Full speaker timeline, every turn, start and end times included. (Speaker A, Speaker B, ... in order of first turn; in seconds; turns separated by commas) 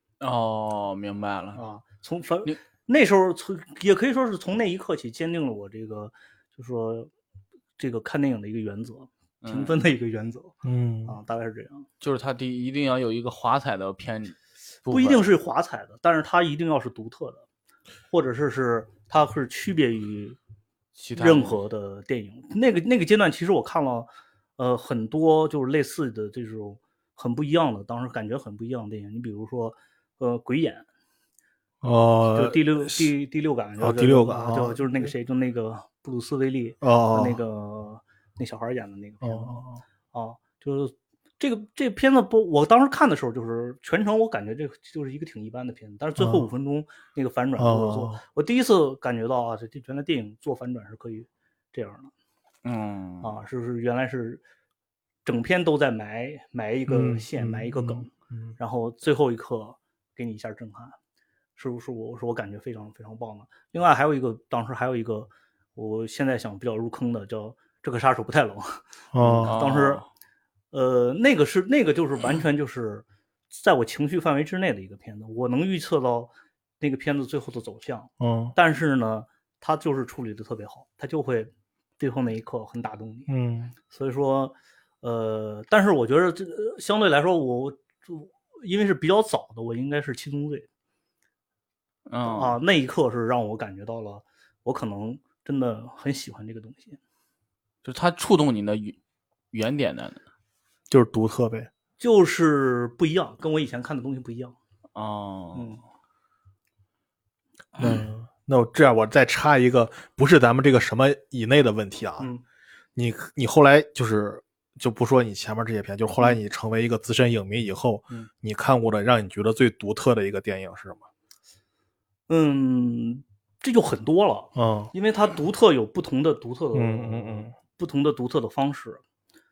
Speaker A: 0.2-1.6, Speaker B: 1.6-7.1, Speaker B: 7.8-11.9, Speaker A: 9.4-9.8, Speaker C: 10.6-11.2, Speaker A: 12.0-15.3, Speaker B: 14.9-17.5, Speaker B: 18.1-20.4, Speaker A: 21.0-21.6, Speaker B: 21.2-30.9, Speaker C: 31.8-33.1, Speaker B: 32.3-52.1, Speaker C: 33.8-35.1, Speaker C: 36.8-37.4, Speaker C: 39.2-39.8, Speaker C: 46.2-46.5, Speaker C: 47.6-48.2, Speaker A: 52.6-53.3, Speaker B: 53.2-54.4, Speaker B: 55.2-61.0, Speaker C: 56.9-58.6, Speaker B: 61.6-70.0, Speaker C: 69.1-69.6, Speaker A: 69.4-70.1, Speaker B: 70.7-83.3, Speaker C: 78.2-78.5, Speaker C: 83.3-83.7, Speaker B: 83.8-90.7, Speaker A: 92.1-92.6, Speaker B: 92.3-97.0, Speaker A: 97.8-99.0, Speaker A: 99.5-100.2, Speaker C: 100.9-101.7, Speaker B: 102.0-104.6, Speaker A: 105.0-105.8, Speaker B: 105.5-105.8, Speaker B: 107.8-108.1, Speaker C: 107.8-112.3, Speaker C: 113.0-121.1, Speaker B: 122.3-129.0, Speaker C: 124.6-124.9, Speaker C: 126.7-127.5